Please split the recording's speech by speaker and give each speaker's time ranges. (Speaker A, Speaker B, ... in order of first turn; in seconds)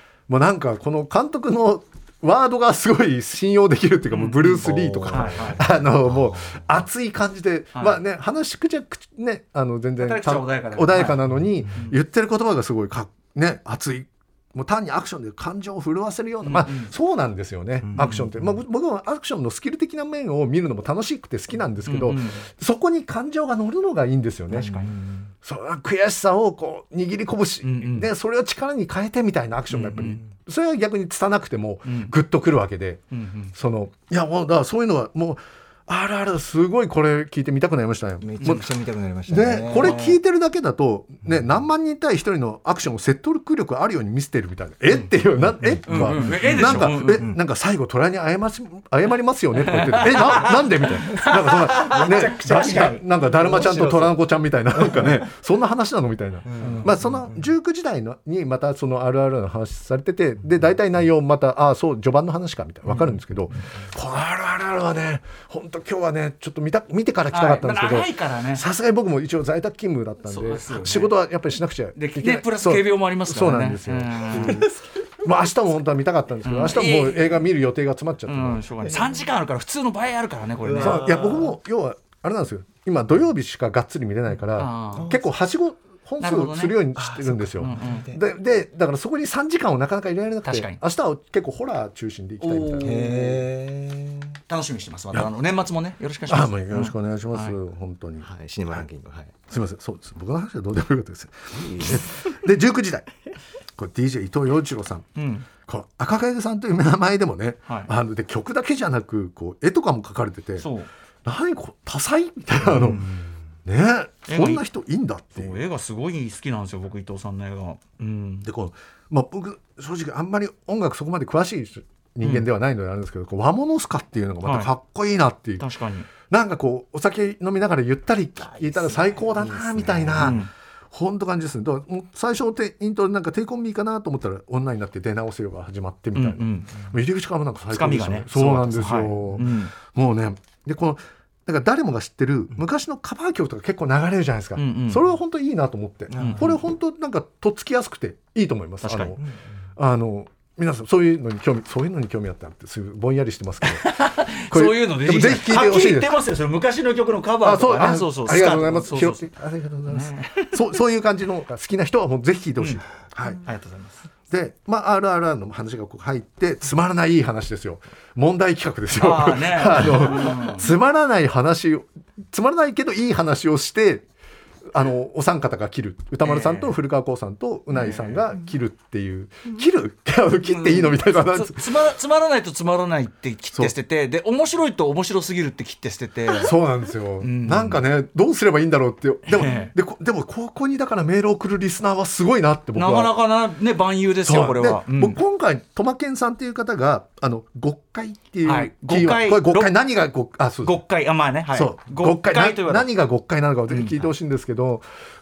Speaker A: 0.3-24.8, 25.4-33.0, 33.5-38.6, 39.3-78.6, 80.8-93.2, 96.3-98.9, 99.5-103.0, 103.8-105.1, 105.7-110.7, 111.2-113.0, 113.6-115.6, 118.4-125.7, 126.3-149.2, 149.8-153.9, 154.5-156.2, 157.4-163.4, 164.3-174.0, 174.7-181.7, 186.3-193.1, 194.2-200.8, 201.5-204.8
Speaker B: 4.1-5.7, 7.7-8.0, 10.0-11.9, 16.4-16.9, 17.9-18.2, 21.9-22.4, 24.6-24.9, 27.6-28.1, 29.7-30.2, 31.8-32.1, 33.1-33.5, 39.8-40.1, 45.9-47.3, 49.7-52.1, 56.6-56.9, 67.3-68.6, 70.2-71.1, 72.0-74.6, 76.5-77.4, 78.3-81.1, 84.6-85.1, 86.2-86.8, 87.6-88.1, 90.4-90.8, 92.4-93.4, 94.5-97.5, 105.2-105.5, 110.6-110.9, 112.8-113.0, 114.3-114.6, 115.3-118.5, 122.2-122.5, 124.4-124.7, 125.6-126.1, 130.2-130.5, 136.1-136.7, 137.7-139.7, 144.6-145.0, 146.2-146.6, 148.8-149.2, 153.6-159.2, 159.9-160.6, 163.4-164.0, 168.9-170.7, 176.2-176.8, 177.7-178.3, 180.5-186.5, 187.2-187.8, 189.3-189.7, 192.7-195.2, 198.4-199.7, 200.6-202.9, 203.7-204.1
Speaker C: 4.6-6.3, 17.9-18.3, 24.5-25.3, 38.2-40.1, 45.6-47.4, 51.2-54.2, 54.8-55.1, 56.5-57.3, 74.4-74.8, 78.8-79.3, 80.6-81.5, 84.9-85.2, 87.0-88.2, 92.8-94.4, 98.2-99.3, 101.6-102.0, 128.4-130.4, 146.1-146.6